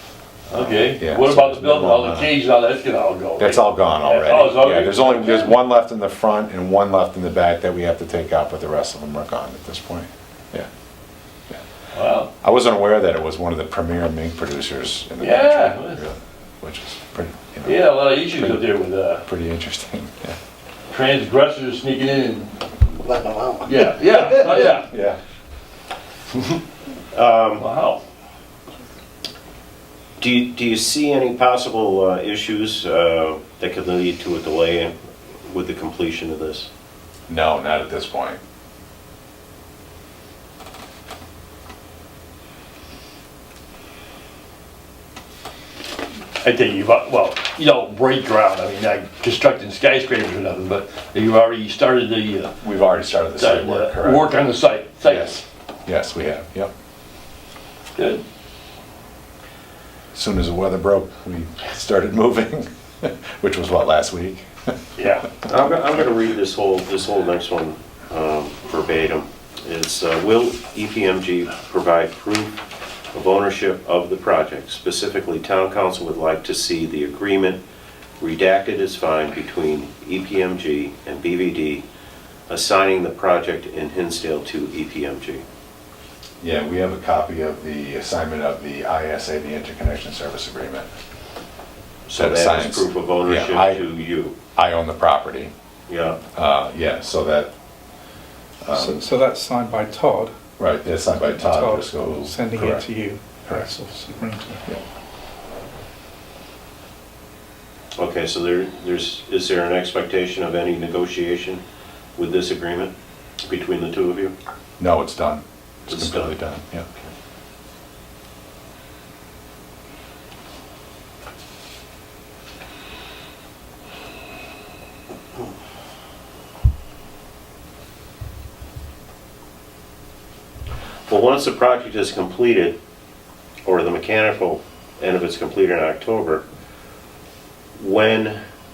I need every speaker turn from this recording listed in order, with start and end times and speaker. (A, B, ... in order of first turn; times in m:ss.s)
0:00.5-0:05.6 A
0:00.5-0:02.3 B
0:03.4-0:10.7 B
0:11.9-0:12.3 A
0:12.4-0:20.4 B
0:15.2-0:16.0 A
0:17.6-0:19.2 A
0:20.9-0:22.6 A
0:23.6-0:24.9 A
0:24.4-0:25.2 B
0:27.1-0:27.6 C
0:27.6-0:28.0 A
0:30.2-0:36.7 C
0:37.3-0:38.4 B
0:46.4-0:52.5 A
0:52.6-0:54.3 B
0:53.4-0:55.4 A
0:55.0-0:56.7 B
0:58.0-0:58.2 A
1:00.1-1:04.7 B
1:05.0-1:05.3 A
1:05.4-1:12.6 C
1:13.1-1:17.6 C
1:18.2-1:21.8 C
1:22.5-1:25.4 C
1:26.4-1:30.9 B
1:32.1-1:34.4 C
1:32.2-1:33.8 B
1:34.6-1:35.5 B
1:35.9-1:36.2 C
1:36.3-1:37.5 B
1:38.6-1:39.1 B
1:38.7-1:40.4 D
1:40.6-1:42.8 B
1:41.2-1:44.6 D
1:48.0-1:51.6 C
1:52.2-1:52.9 C
1:53.5-1:54.3 C
1:54.8-1:56.9 B
1:55.9-1:56.4 C
2:11.1-2:12.8 C
2:13.6-2:16.4 C
2:17.8-2:18.4 C